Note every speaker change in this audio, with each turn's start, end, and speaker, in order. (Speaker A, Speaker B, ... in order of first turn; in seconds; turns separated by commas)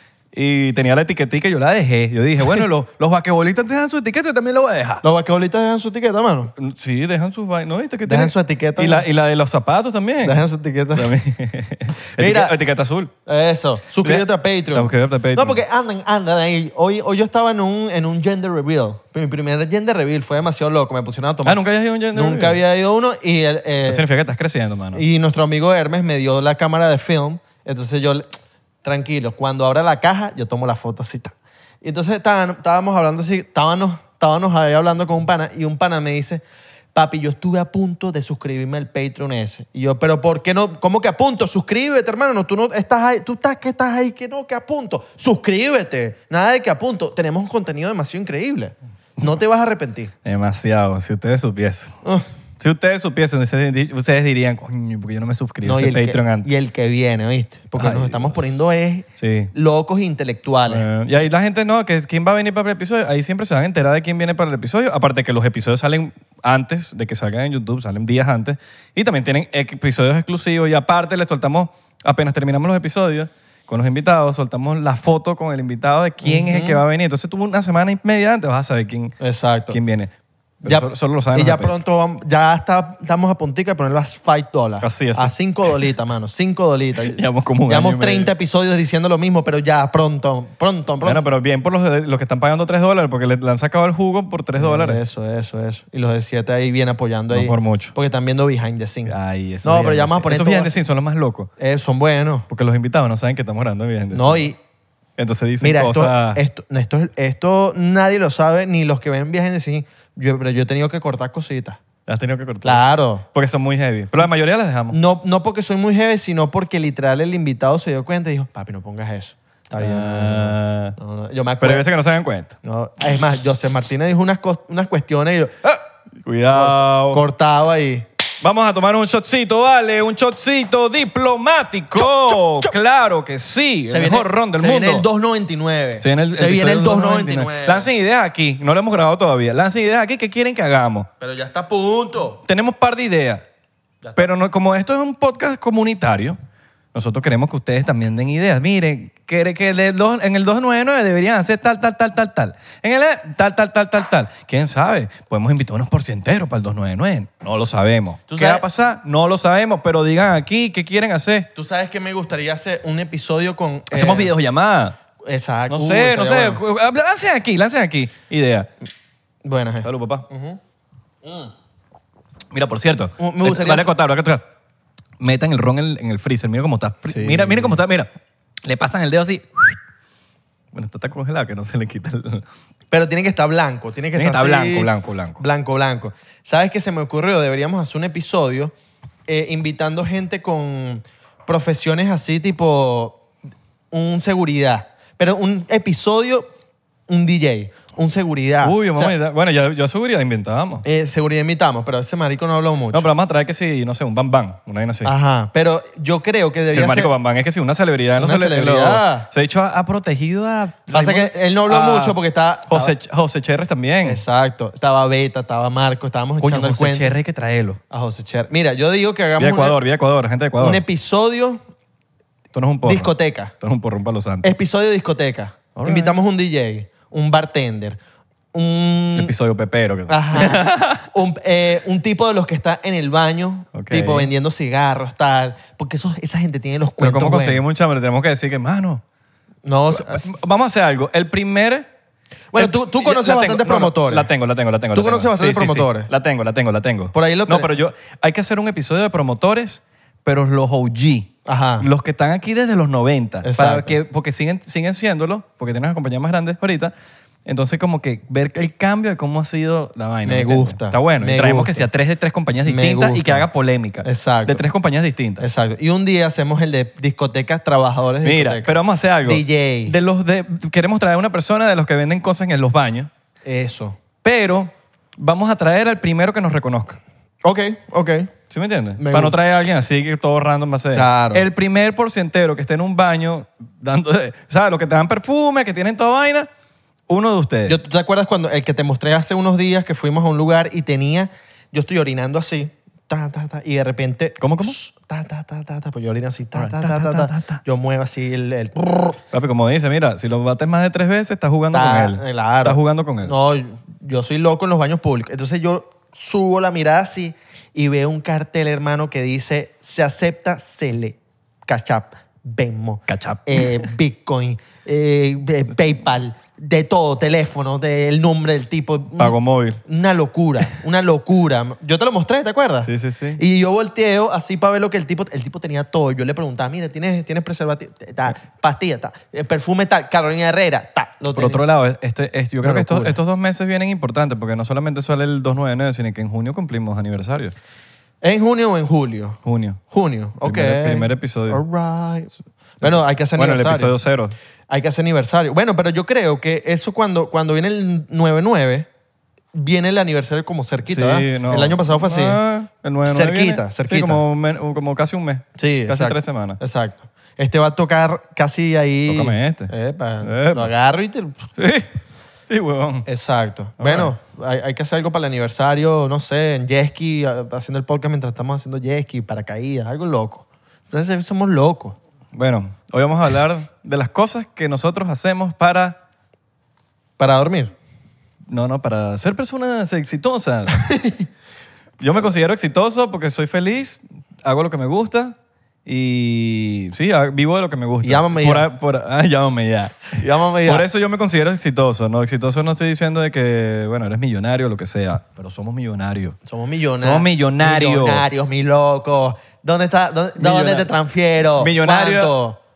Speaker A: 0.3-5.0, Speaker B: 5.0-6.5, Speaker A: 6.5-10.4, Speaker B: 8.1-9.0, Speaker B: 10.2-11.1, Speaker A: 10.9-13.1, Speaker B: 12.2-12.5, Speaker B: 13.2-24.0, Speaker A: 14.0-15.6, Speaker A: 21.4-22.6, Speaker A: 23.8-25.0, Speaker B: 24.9-28.3, Speaker B: 28.8-50.1, Speaker A: 50.2-51.9, Speaker A: 52.6-56.5, Speaker B: 55.6-60.9, Speaker A: 57.8-58.6, Speaker A: 59.2-59.5, Speaker A: 60.7-79.1, Speaker B: 76.2-76.8, Speaker B: 79.2-79.8, Speaker A: 79.7-80.1, Speaker A: 80.6-81.7, Speaker B: 80.6-91.2, Speaker A: 84.8-85.3, Speaker A: 87.0-88.3, Speaker A: 91.0-95.0, Speaker B: 94.5-100.7, Speaker A: 97.3-98.0, Speaker A: 99.0-101.5, Speaker B: 101.6-102.5, Speaker A: 102.5-104.4, Speaker B: 104.1-104.6, Speaker A: 105.2-106.4, Speaker B: 105.6-111.8, Speaker A: 112.0-115.0, Speaker B: 112.6-113.2, Speaker B: 114.9-121.9, Speaker A: 119.8-121.0, Speaker A: 121.6-122.5, Speaker B: 122.6-125.8, Speaker A: 126.2-127.2, Speaker B: 126.5-128.1, Speaker A: 128.4-135.1, Speaker B: 132.0-132.7, Speaker B: 133.9-137.9, Speaker A: 136.0-141.1, Speaker B: 141.2-142.4, Speaker A: 142.4-143.4, Speaker B: 144.0-144.3, Speaker A: 144.2-146.4, Speaker A: 146.9-161.5, Speaker B: 158.3-158.6, Speaker B: 161.5-164.3, Speaker A: 163.9-165.0, Speaker B: 165.2-166.6, Speaker A: 165.7-168.7, Speaker B: 169.4-170.6, Speaker A: 169.8-170.2, Speaker B: 171.2-171.5, Speaker A: 172.5-174.4, Speaker B: 173.2-173.9, Speaker A: 175.2-178.1, Speaker B: 177.1-177.8, Speaker A: 178.6-179.8, Speaker A: 180.7-182.4, Speaker B: 182.9-188.7, Speaker A: 184.1-185.4, Speaker B: 189.3-193.2, Speaker B: 193.9-196.5, Speaker B: 197.1-199.2, Speaker A: 198.6-200.8, Speaker B: 200.8-203.1, Speaker A: 202.9-205.1, Speaker B: 205.0-207.1, Speaker A: 206.7-214.2, Speaker B: 208.2-209.3, Speaker B: 210.9-212.9, Speaker B: 214.0-217.1, Speaker A: 216.4-217.8, Speaker B: 217.9-219.8, Speaker A: 219.4-220.8, Speaker B: 220.6-221.6, Speaker A: 222.5-224.5, Speaker B: 222.8-223.5, Speaker B: 224.4-228.0, Speaker A: 225.7-226.2, Speaker B: 228.5-229.3, Speaker A: 229.1-231.1, Speaker B: 230.1-237.6, Speaker A: 233.7-234.3, Speaker A: 237.0-239.0, Speaker B: 239.6-240.4, Speaker A: 239.9-241.9, Speaker B: 242.5-244.3, Speaker A: 242.5-256.9, Speaker B: 244.9-246.1, Speaker B: 247.1-247.7, Speaker B: 251.4-251.9, Speaker B: 253.4-254.0, Speaker A: 257.4-265.4, Speaker B: 260.2-261.8, Speaker B: 262.6-263.4, Speaker B: 264.0-264.6, Speaker B: 265.4-269.9, Speaker A: 268.2-273.1, Speaker B: 273.4-274.0, Speaker A: 274.2-277.0, Speaker B: 277.4-278.3, Speaker A: 278.5-286.5, Speaker B: 279.0-279.4, Speaker B: 280.9-281.4, Speaker A: 287.1-287.8, Speaker B: 287.7-299.2, Speaker A: 294.4-294.8, Speaker A: 296.5-297.6, Speaker A: 299.3-303.3, Speaker B: 301.7-331.6, Speaker A: 313.1-313.9, Speaker A: 319.2-319.8, Speaker A: 322.8-323.4, Speaker A: 331.3-337.6, Speaker B: 332.6-333.2, Speaker B: 338.2-339.4, Speaker A: 339.4-339.8, Speaker B: 339.9-343.9, Speaker A: 340.4-341.6, Speaker A: 342.8-344.3, Speaker B: 344.7-348.9, Speaker B: 349.5-352.4, Speaker A: 350.8-356.6, Speaker B: 353.1-354.2, Speaker B: 355.6-361.5, Speaker A: 359.1-360.7, Speaker A: 361.6-361.9, Speaker A: 362.5-363.1, Speaker B: 363.1-372.0, Speaker A: 363.8-364.1, Speaker A: 372.3-376.0, Speaker B: 377.2-377.7, Speaker A: 378.5-380.7, Speaker B: 380.8-381.2, Speaker A: 382.0-396.4, Speaker B: 388.0-388.7, Speaker B: 390.1-390.9, Speaker B: 396.4-402.6, Speaker A: 397.0-398.2, Speaker A: 400.4-400.9, Speaker A: 401.6-402.4